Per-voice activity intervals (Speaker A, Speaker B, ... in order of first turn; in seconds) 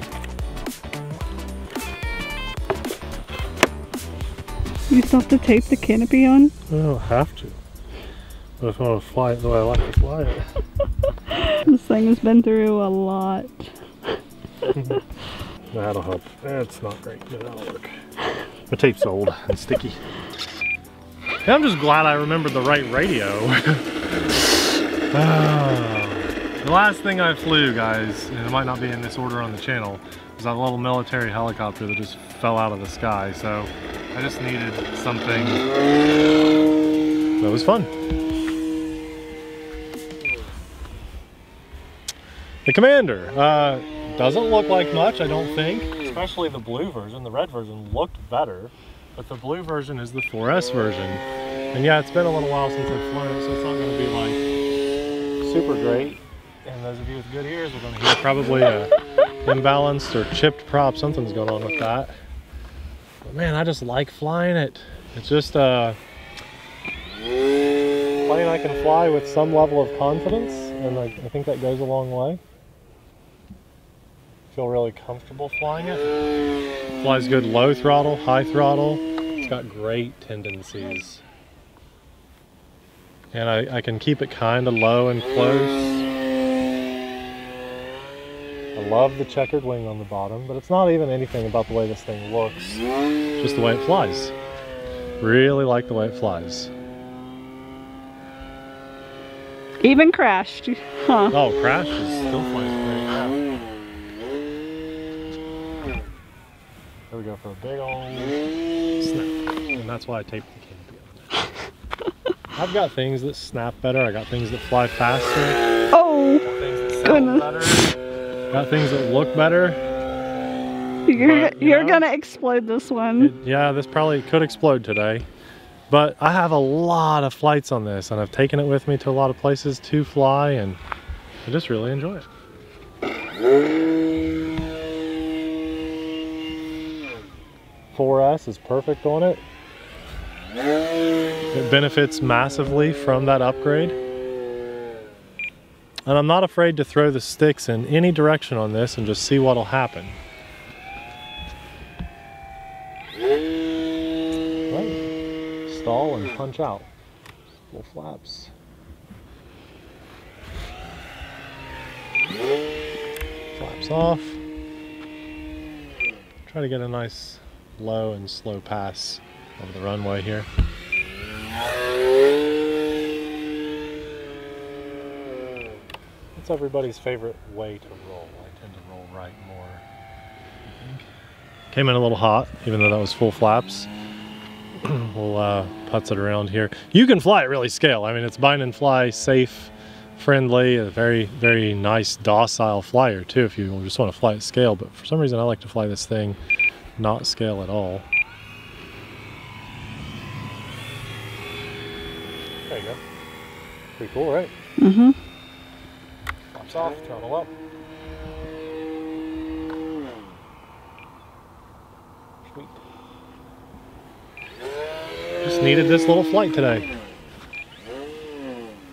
Speaker A: 4.9-6.5, 11.3-13.7, 99.8-101.3, 115.9-116.4, 117.0-117.5, 121.1-123.3, 204.8-205.2
Speaker B: 6.7-7.6, 8.6-10.4, 14.7-15.0, 15.7-17.9, 18.7-20.0, 21.4-24.4, 25.1-35.6, 37.4-37.9, 42.6-54.4, 55.4-62.1, 63.2-66.0, 68.2-72.4, 74.5-76.1, 77.0-81.2, 83.3-86.0, 88.7-92.8, 93.4-94.3, 95.2-96.7, 101.3-103.4, 107.1-108.4, 109.0-111.4, 112.5-115.6, 116.4-117.9, 118.5-119.8, 121.1-122.0, 123.2-125.3, 125.9-130.8, 131.4-132.2, 137.9-139.4, 141.5-144.0, 146.1-150.2, 154.7-155.0, 155.7-156.9, 157.7-158.5, 163.5-164.4, 166.5-170.5, 176.3-179.8, 180.6-181.1, 181.7-183.9, 184.8-196.4, 197.0-198.0, 202.7-203.0, 204.0-204.5, 206.5-207.5, 212.4-212.8, 215.4-216.9